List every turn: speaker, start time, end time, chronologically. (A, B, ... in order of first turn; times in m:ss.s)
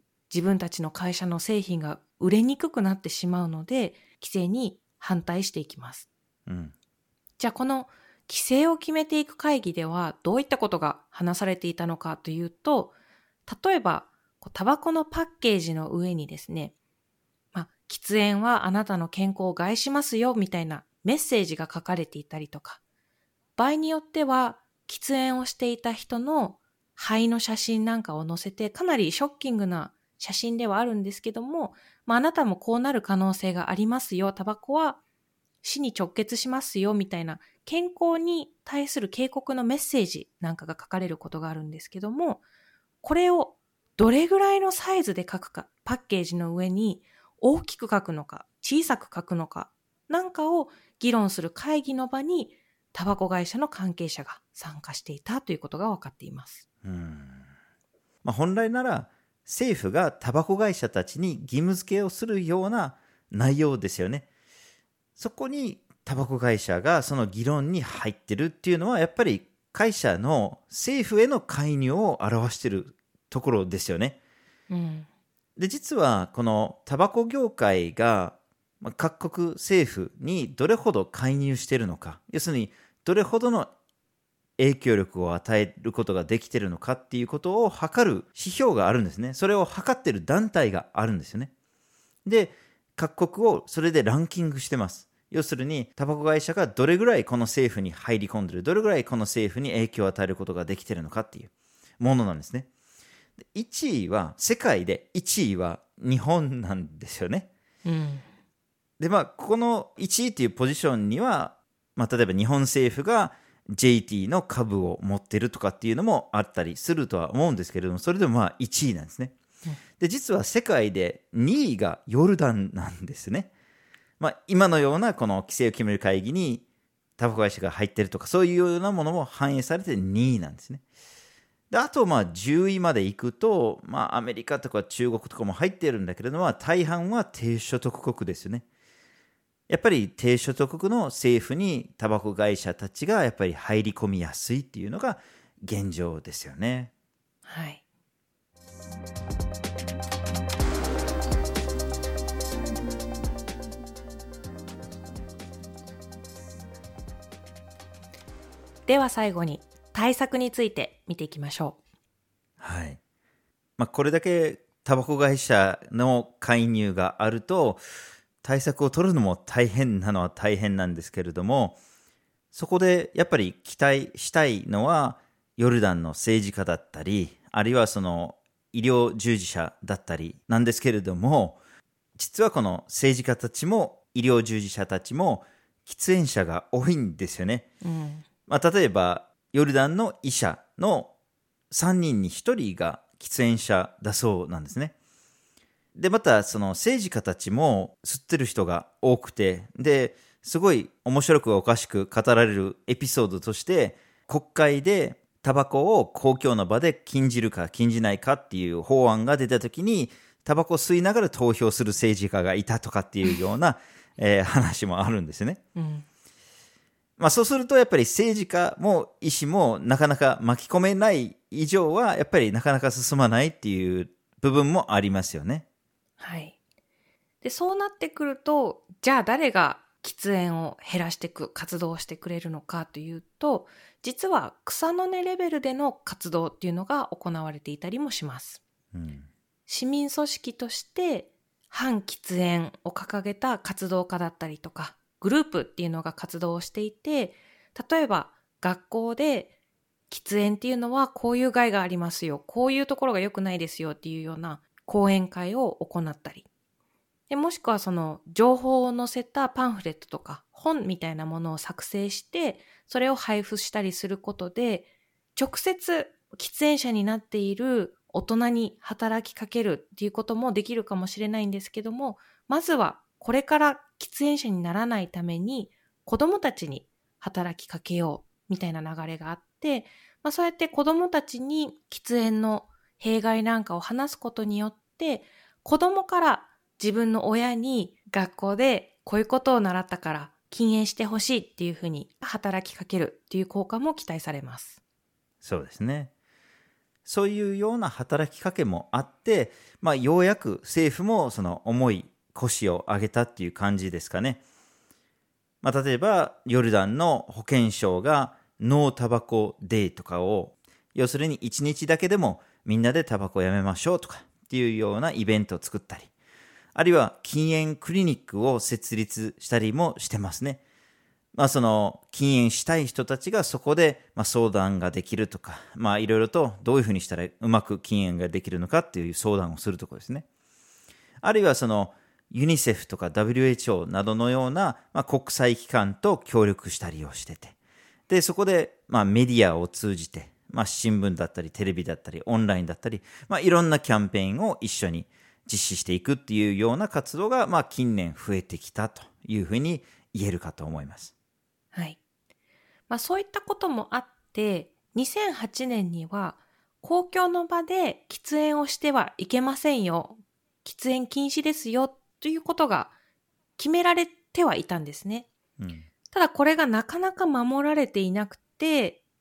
0:00.3-0:06.1 A
0:06.5-0:06.7 B
0:07.4-0:12.9 A
0:13.5-0:16.7 A
0:17.5-0:22.8 A
0:23.6-0:35.0 A
0:35.6-0:42.4 A
0:43.0-0:56.6 A
0:56.8-0:57.4 B
0:58.2-1:04.2 B
1:05.2-1:14.2 B
1:14.7-1:15.1 A
1:15.6-1:23.7 B
1:24.6-1:31.5 B
1:32.2-1:42.7 B
1:43.5-1:47.5 B
1:47.8-1:48.3 A
1:49.0-1:59.3 B
2:00.0-2:03.5 B
2:04.2-2:06.6 B
2:07.2-2:10.8 B
2:11.7-2:18.6 B
2:19.7-2:26.9 B
2:27.4-2:27.8 A
2:38.8-2:41.8 A
2:42.6-2:43.0 B
2:43.8-2:47.8 B
2:48.4-2:51.8 B
2:52.5-3:01.6 B
3:02.2-3:07.7 B
3:07.8-3:08.2 A
3:08.5-3:11.1 B
3:11.7-3:14.9 B
3:15.9-3:35.6 B
3:35.8-3:36.0 A
3:37.2-3:45.6 B
3:46.2-3:46.6 A
3:47.4-3:58.6 A
3:58.9-3:59.3 B
3:59.7-4:09.5 A
4:10.1-4:16.4 A
4:17.3-4:54.8 A
4:55.4-4:56.1 B
4:57.0-5:04.4 B
5:05.6-5:16.1 B
5:16.7-5:20.6 B
5:21.3-5:30.2 B
5:31.2-5:37.5 B
5:38.1-5:51.1 B
5:51.7-5:52.0 A
5:52.9-6:02.9 A
6:03.6-6:05.3 A
6:05.6-6:05.9 B
6:06.1-6:09.0 A